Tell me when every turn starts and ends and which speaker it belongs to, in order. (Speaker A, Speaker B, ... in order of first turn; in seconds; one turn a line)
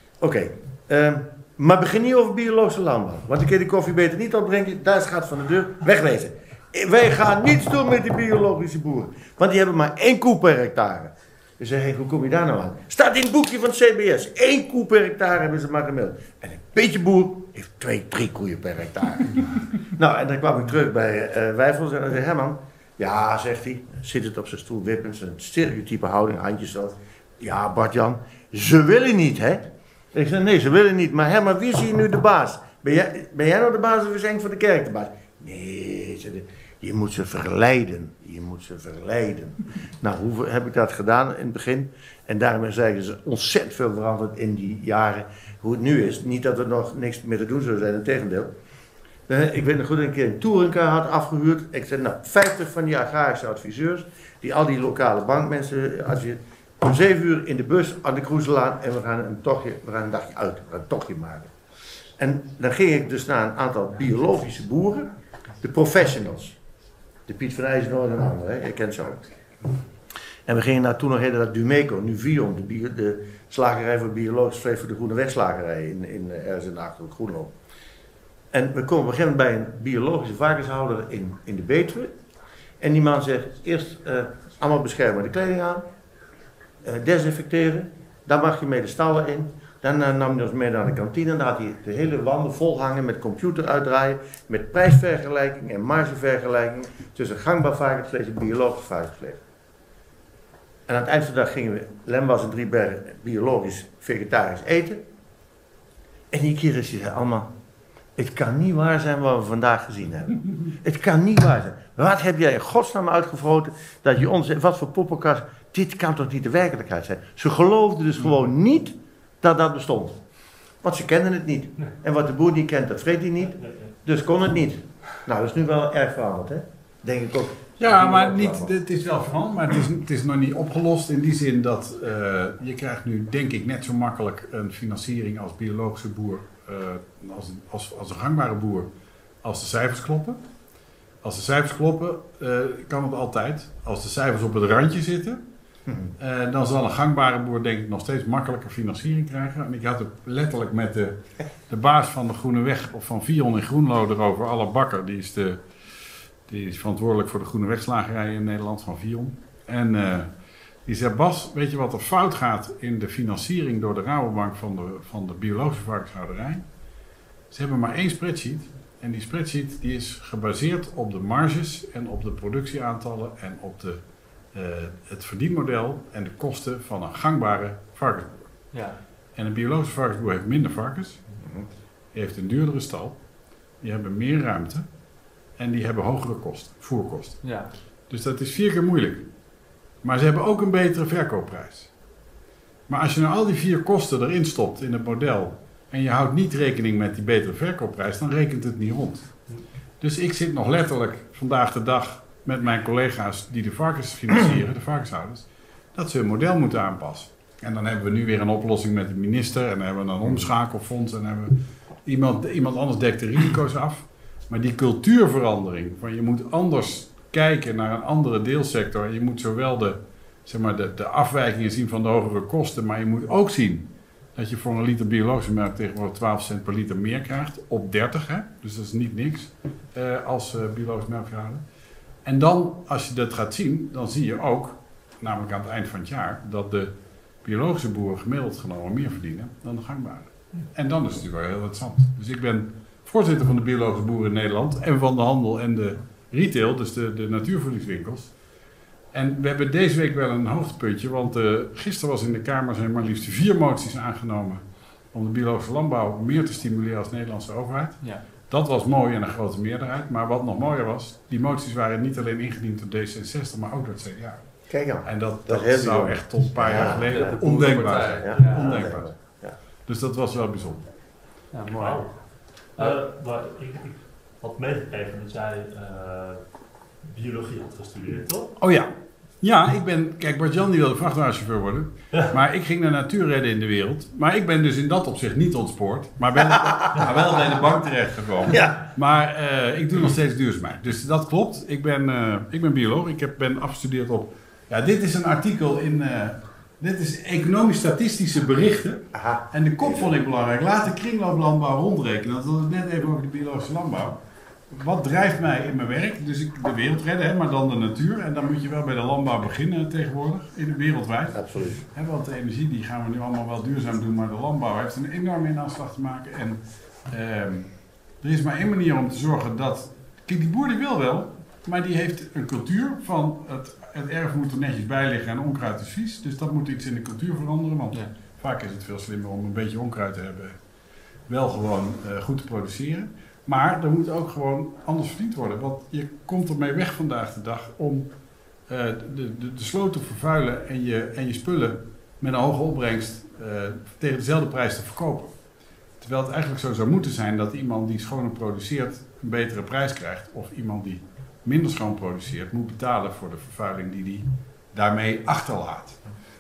Speaker A: 0.2-48.5
Speaker A: 49.3-61.5
Speaker A: 62.2-66.6
Speaker A: 67.3-69.2
Speaker A: 70.5-77.5
Speaker A: 78.5-82.2
Speaker A: 82.8-85.9
Speaker A: 86.8-99.4
Speaker A: 100.9-105.0
Speaker A: 106.3-107.5
Speaker A: 108.2-120.2
Speaker A: 120.8-128.7
Speaker B: 123.6-123.9
Speaker C: 127.8-138.9
Speaker C: 139.4-140.4
Speaker C: 141.2-145.4
Speaker A: 145.9-146.1
Speaker C: 146.2-155.6
Speaker C: 156.5-160.3
Speaker C: 160.9-166.6
Speaker C: 167.5-174.0
Speaker C: 174.5-178.5
Speaker D: 178.7-179.0
Speaker C: 179.4-181.2
Speaker C: 182.1-183.2
Speaker C: 183.8-184.8
Speaker C: 185.6-187.4
Speaker D: 187.4-187.7
Speaker C: 188.1-189.3
Speaker C: 190.0-191.9
Speaker C: 192.9-199.3
Speaker C: 200.0-231.6
Speaker C: 232.2-236.9
Speaker C: 237.4-248.3
Speaker C: 249.1-254.6
Speaker C: 255.1-264.4
Speaker A: 264.7-269.6
Speaker C: 265.0-269.1
Speaker D: 266.8-268.8
Speaker C: 269.9-270.9
Speaker D: 271.5-272.1
Speaker B: 271.8-272.1
Speaker B: 272.8-276.4
Speaker B: 277.0-278.5
Speaker C: 278.6-304.2
Speaker A: 286.5-287.2
Speaker A: 288.5-288.9
Speaker A: 299.1-300.1
Speaker C: 304.7-330.6
Speaker A: 311.3-311.8
Speaker C: 331.3-338.1
Speaker C: 338.7-345.3
Speaker C: 346.0-356.0